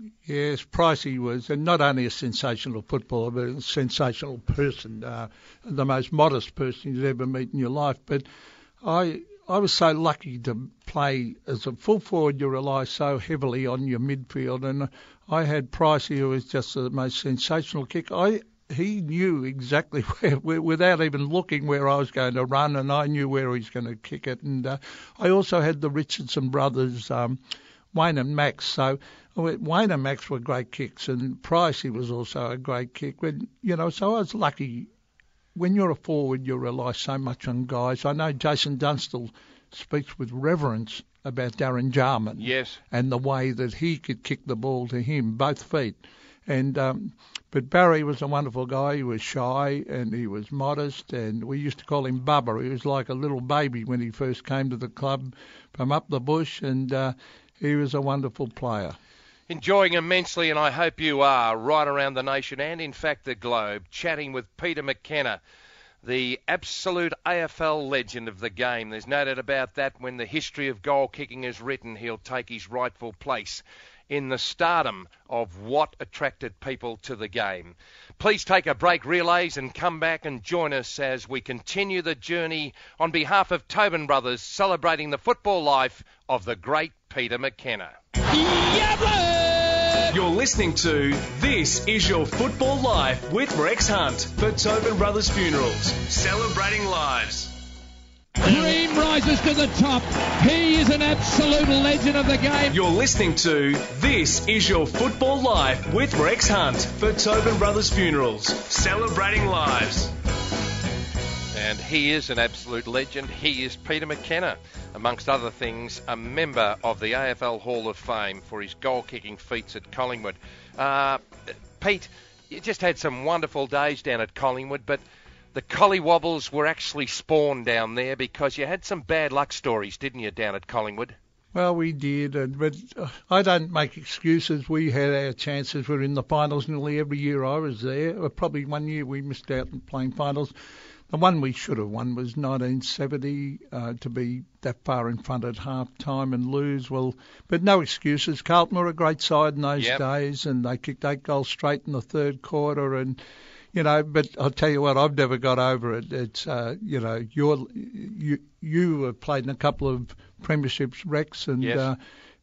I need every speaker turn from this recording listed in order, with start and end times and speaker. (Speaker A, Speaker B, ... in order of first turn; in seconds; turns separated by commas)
Speaker A: 0.2-8.3, Speaker A: 8.8-27.4, Speaker A: 27.9-34.9, Speaker A: 35.5-59.0, Speaker B: 42.4-42.8, Speaker B: 59.5-65.4, Speaker B: 66.0-88.0, Speaker C: 88.3-90.1, Speaker D: 90.1-97.6, Speaker C: 98.4-102.7, Speaker D: 102.7-110.1, Speaker B: 111.5-121.2, Speaker B: 121.8-125.0, Speaker B: 125.5-131.2, Speaker A: 131.5-140.6, Speaker A: 141.1-153.2, Speaker A: 153.7-162.0, Speaker B: 161.6-161.9